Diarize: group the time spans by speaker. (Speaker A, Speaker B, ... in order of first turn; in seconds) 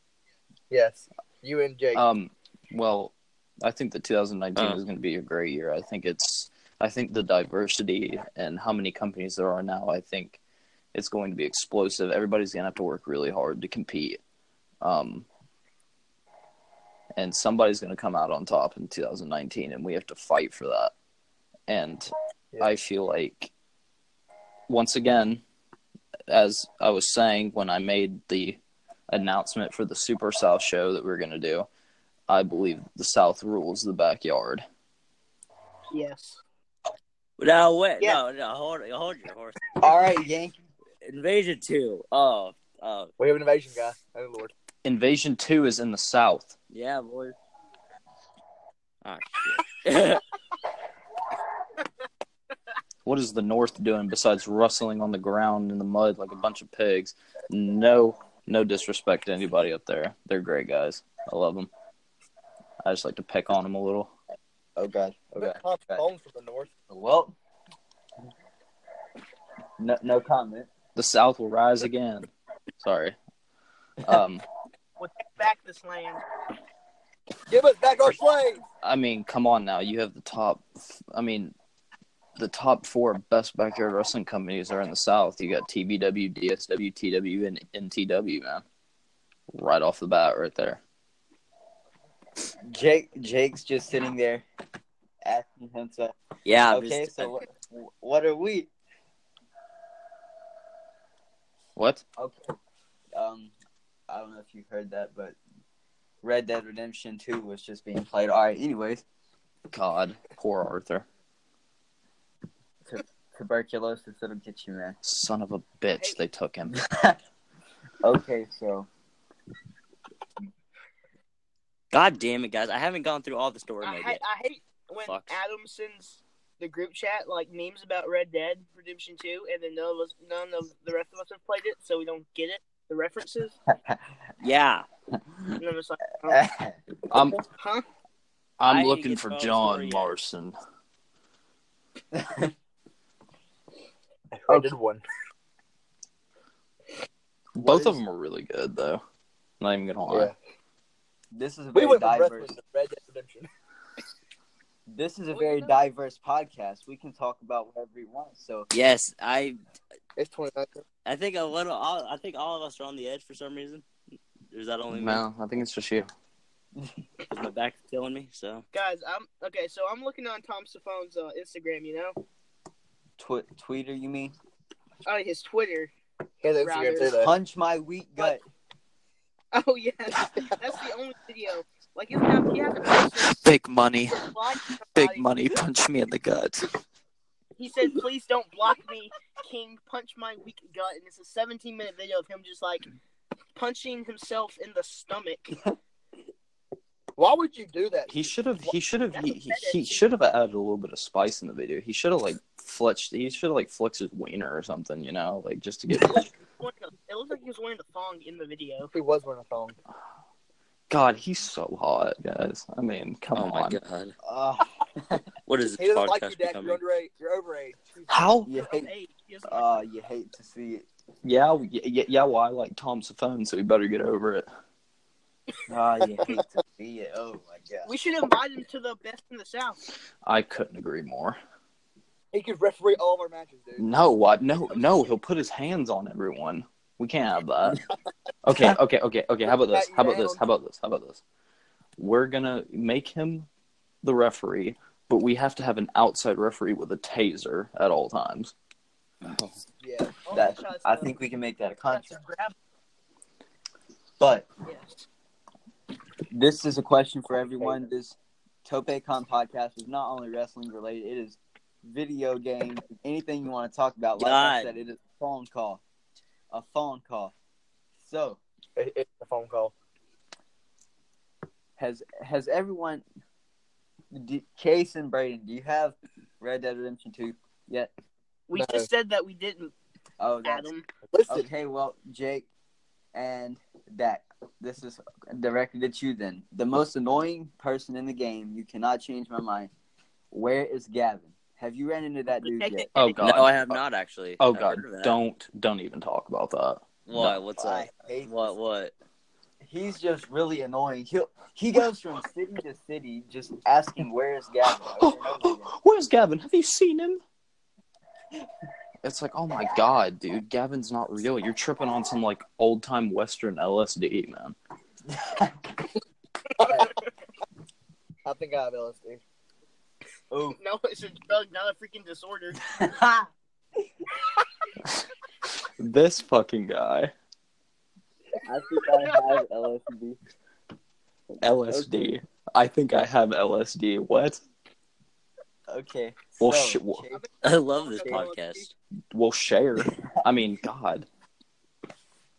Speaker A: 0.7-2.0, 43.2-44.5, 65.4-66.7, 77.5-78.6, 144.3-145.0, 150.1-150.3, 151.7-153.5, 160.2-160.8, 176.4-177.3, 197.2-198.1, 208.9-209.8, 215.7-218.2, 232.3-233.8, 239.6-240.4, 249.8-250.2, 268.8-269.7, 278.6-278.9, 281.1-281.5, 316.6-316.9, 318.2-319.2
Speaker B: 1.9-10.4, 10.9-14.2, 14.8-15.2, 17.1-20.9, 21.7-23.5, 24.7-25.4, 26.3-31.7, 32.3-34.6, 44.8-46.5, 53.0-61.7, 62.8-64.1, 71.0-72.3, 72.8-73.2, 74.0-74.4, 78.8-81.5, 82.4-88.6, 89.5-90.8, 101.8-102.0, 109.7-111.0, 115.0-116.8, 137.1-137.4, 138.6-140.6, 147.6-149.0, 149.6-150.3, 164.9-166.1, 183.3-184.4, 184.9-186.7, 198.1-206.3, 210.9-213.8, 218.1-218.5, 221.2-224.5, 230.2-231.4, 233.8-237.8, 238.4-241.2, 242.0-243.5, 244.0-248.5, 292.9-293.8, 294.4-297.4, 305.0-307.2, 309.0-314.6, 325.8-327.1, 331.4-334.4, 336.4-337.0, 339.1-341.1
Speaker C: 4.5-4.8, 37.4-39.8, 41.0-43.1, 46.7-47.4, 49.0-50.2, 96.4-97.4, 121.9-124.2, 125.0-125.4, 134.4-134.8, 138.7-140.1, 158.7-159.6, 161.0-163.8, 164.5-165.2, 167.3-168.6, 213.3-214.1, 215.5-216.8, 249.2-249.6, 264.2-264.7, 293.2-295.1, 297.1-298.9, 337.4-338.7
Speaker D: 35.9-36.4, 75.0-76.2, 123.8-133.5, 135.6-136.4, 137.6-137.8, 155.4-155.6, 168.7-172.2, 175.0-175.9, 176.6-177.1, 179.5-183.4, 184.1-185.3, 187.6-192.8, 193.5-195.6, 199.2-199.8, 206.1-208.9, 218.5-219.8, 227.8-229.8, 250.2-251.1, 251.9-252.5, 254.7-255.0, 278.5-279.7, 280.4-280.9, 292.4-293.2, 320.6-322.6, 337.1-338.7
Speaker E: 39.8-40.6, 64.8-66.0, 66.9-67.3, 69.8-70.7, 92.6-94.4, 95.2-96.1, 96.7-98.7, 102.2-102.5, 103.2-103.5, 104.1-105.3, 106.2-109.0, 112.8-115.0, 116.8-117.2, 118.0-118.9, 133.7-134.0, 136.2-136.8, 142.1-142.5, 147.6-148.0, 151.3-152.5, 154.9-158.7, 173.2-174.3, 177.1-178.4, 214.2-215.2, 218.4-218.9, 219.4-220.8, 225.7-227.9, 250.3-252.2, 254.2-254.5, 256.3-265.8, 266.5-267.3, 268.0-268.4, 271.8-273.0, 274.1-277.9, 280.2-280.7, 281.3-282.5, 283.1-289.7, 290.3-292.9, 297.6-298.5, 299.6-305.7, 315.1-315.5, 320.3-320.6, 322.7-323.3, 328.4-330.2, 331.7-332.2, 335.7-337.2